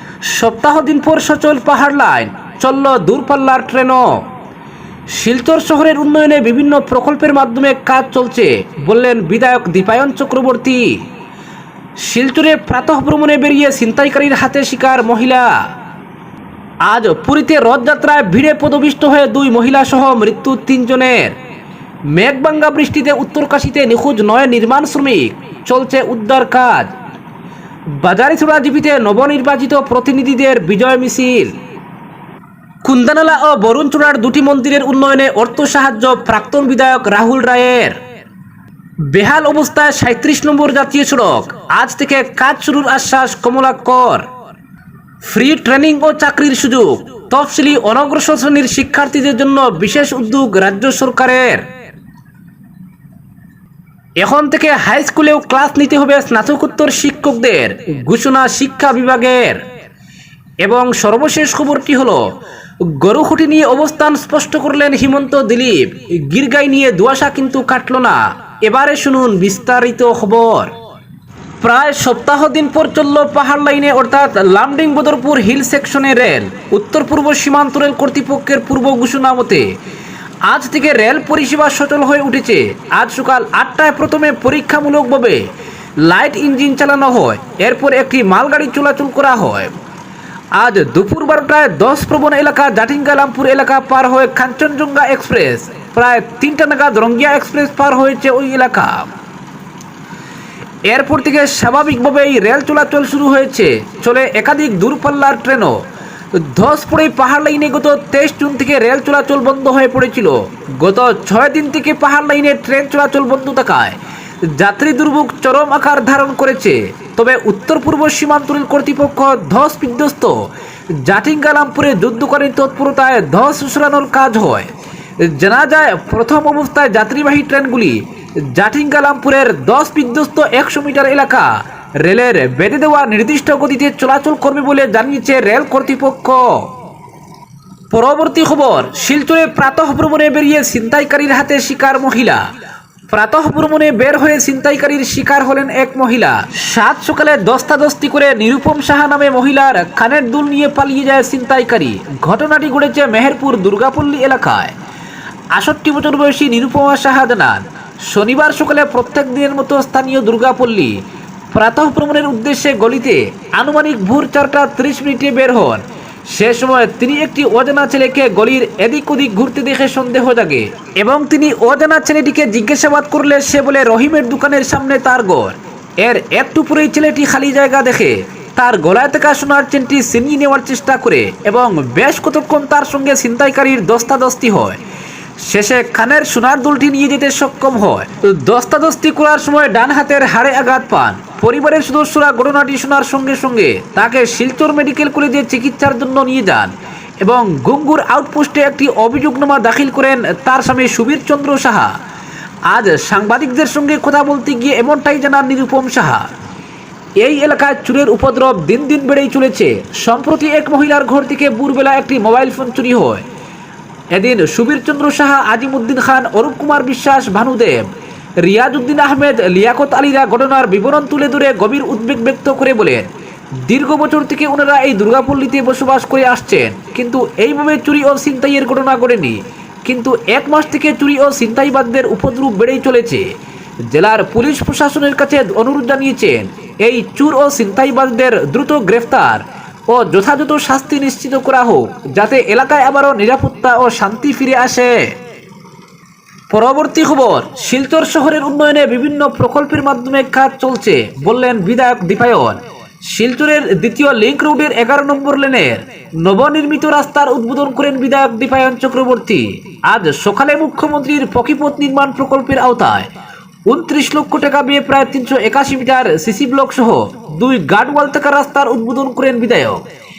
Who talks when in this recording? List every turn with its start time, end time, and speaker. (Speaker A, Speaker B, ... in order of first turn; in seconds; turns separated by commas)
Speaker A: 0.2-4.3, Speaker A: 5.1-11.1, Speaker A: 12.0-15.6, Speaker A: 16.8-21.4, Speaker A: 22.1-26.9, Speaker A: 27.9-31.6, Speaker A: 32.8-38.0, Speaker A: 39.1-44.3, Speaker A: 45.2-51.7, Speaker A: 54.2-59.6, Speaker A: 60.6-62.3, Speaker A: 62.9-70.7, Speaker A: 71.6-79.7, Speaker A: 80.5-89.8, Speaker A: 90.5-99.1, Speaker A: 100.9-105.8, Speaker A: 106.3-136.7, Speaker A: 137.9-142.4, Speaker A: 143.1-154.8, Speaker A: 155.5-161.0, Speaker A: 161.5-184.8, Speaker A: 185.4-202.0, Speaker A: 202.7-206.3, Speaker A: 207.2-213.2, Speaker A: 214.1-217.9, Speaker A: 218.4-223.1, Speaker A: 223.6-233.3, Speaker A: 233.9-245.2, Speaker A: 246.5-263.1, Speaker A: 263.7-269.9